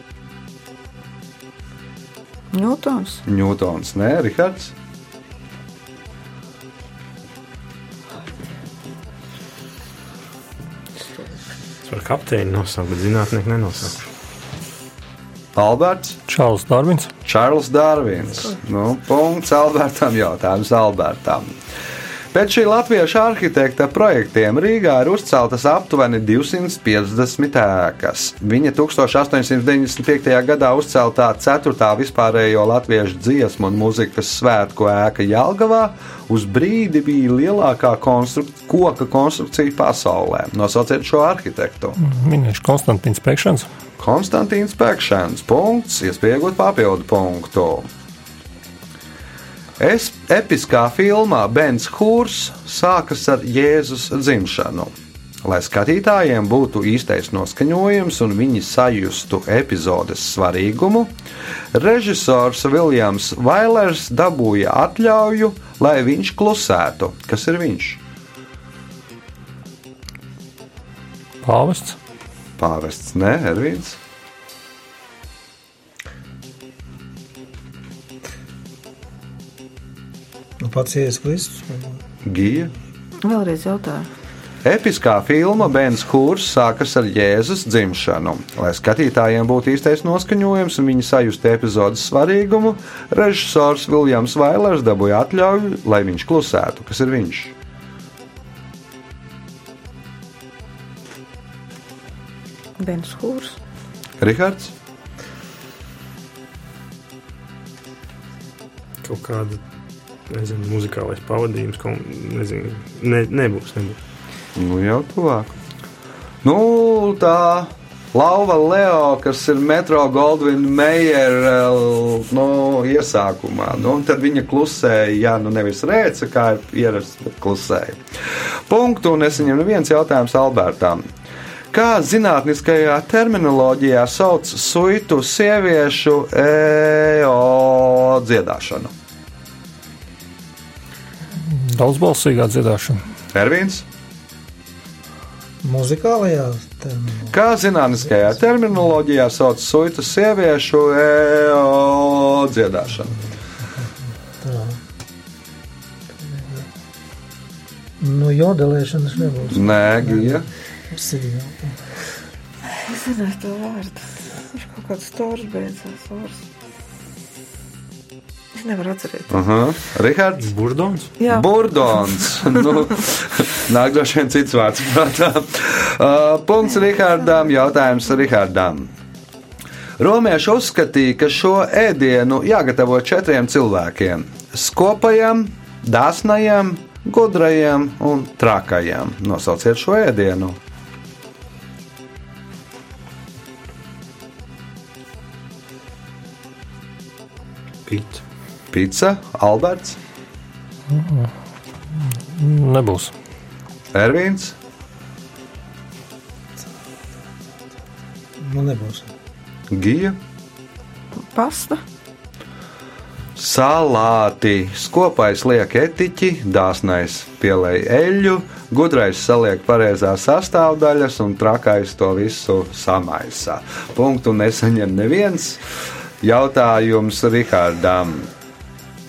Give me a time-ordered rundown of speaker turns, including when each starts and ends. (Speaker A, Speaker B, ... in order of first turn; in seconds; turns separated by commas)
Speaker A: 2.5-3.2, Speaker B: 3.2-4.7, Speaker C: 11.8-14.0, Speaker B: 15.5-16.2, Speaker D: 16.3-17.1, Speaker B: 17.2-21.5, Speaker B: 22.3-42.0, Speaker D: 42.0-43.7, Speaker B: 44.0-47.9, Speaker B: 49.8-54.9, Speaker B: 55.4-61.1, Speaker B: 61.7-68.0, Speaker D: 71.4-72.0, Speaker B: 72.6-74.0, Speaker E: 80.6-82.0, Speaker B: 82.2-82.7, Speaker A: 83.2-84.1, Speaker B: 84.6-97.5, Speaker A: 102.8-103.6, Speaker B: 104.2-104.7, Speaker C: 109.0-109.6, Speaker C: 110.3-114.0, Speaker B: 114.5-115.5, Speaker B: 116.4-128.0, Speaker B: 128.7-131.0, Speaker B: 131.7-138.9, Speaker D: 141.5-143.0, Speaker B: 143.3-143.8, Speaker E: 145.6-147.3, Speaker B: 147.3-153.2, Speaker E: 153.8-154.8, Speaker E: 156.2-156.7, Speaker E: 158.0-161.8, Speaker B: 159.5-160.5, Speaker A: 162.7-166.5, Speaker A: 168.5-169.4, Speaker B: 169.3-170.5, Speaker C: 170.4-171.1, Speaker A: 171.2-171.5, Speaker B: 171.3-178.9, Speaker B: 180.0-190.6, Speaker C: 197.9-198.2, Speaker B: 198.7-200.0, Speaker D: 200.9-201.3, Speaker D: 202.3-203.1, Speaker B: 203.9-204.5, Speaker E: 208.4-209.1, Speaker B: 209.7-210.2, Speaker A: 211.2-211.8, Speaker B: 213.3-225.6, Speaker B: 226.2-228.3